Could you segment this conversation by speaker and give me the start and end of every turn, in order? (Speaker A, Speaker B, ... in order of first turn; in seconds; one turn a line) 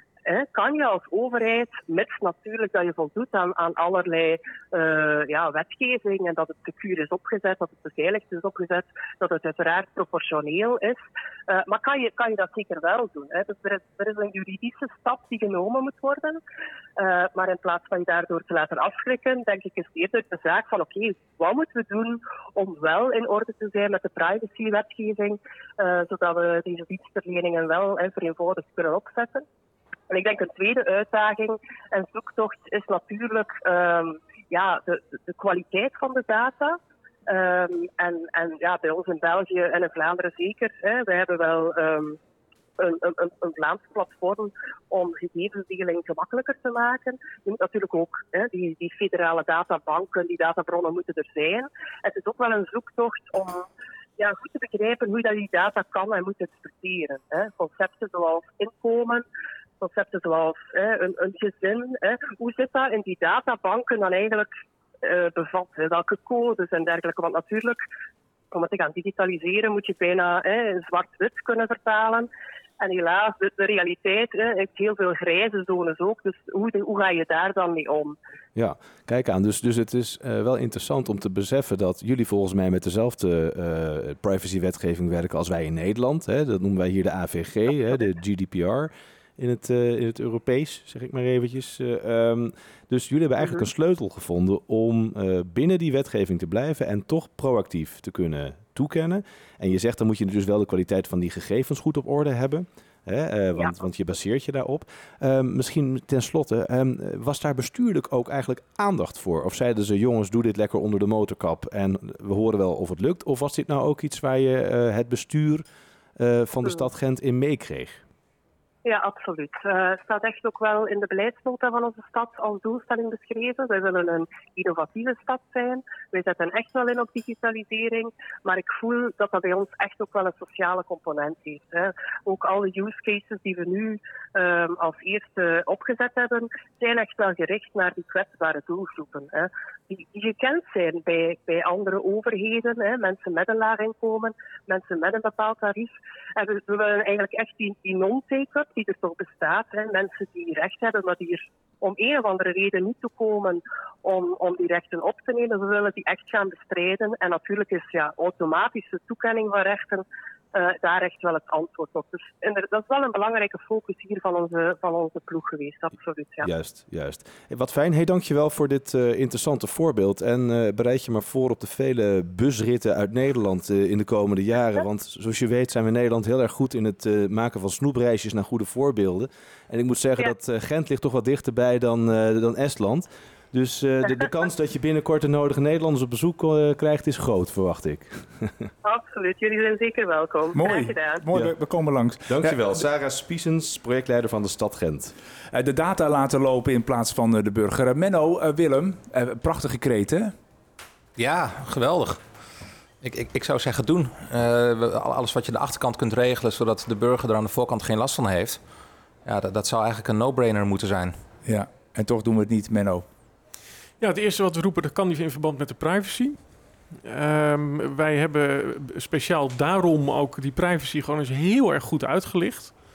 Speaker A: 0.2-16.4
Speaker A: 17.0-29.4
Speaker A: 30.1-42.2
Speaker A: 42.8-59.2
Speaker A: 59.8-64.5
Speaker A: 65.0-67.8
Speaker A: 68.5-78.2
Speaker B: 78.5-115.6
Speaker A: 93.4-93.7
Speaker B: 116.2-118.0
Speaker A: 118.8-166.5
Speaker B: 166.4-188.7
Speaker A: 188.8-191.2
Speaker C: 190.5-192.8
Speaker B: 192.3-195.1
Speaker C: 195.5-200.3
Speaker D: 201.2-202.2
Speaker D: 203.0-208.6
Speaker D: 209.2-211.2
Speaker C: 211.4-213.0
Speaker E: 214.0-216.4
Speaker E: 217.0-222.7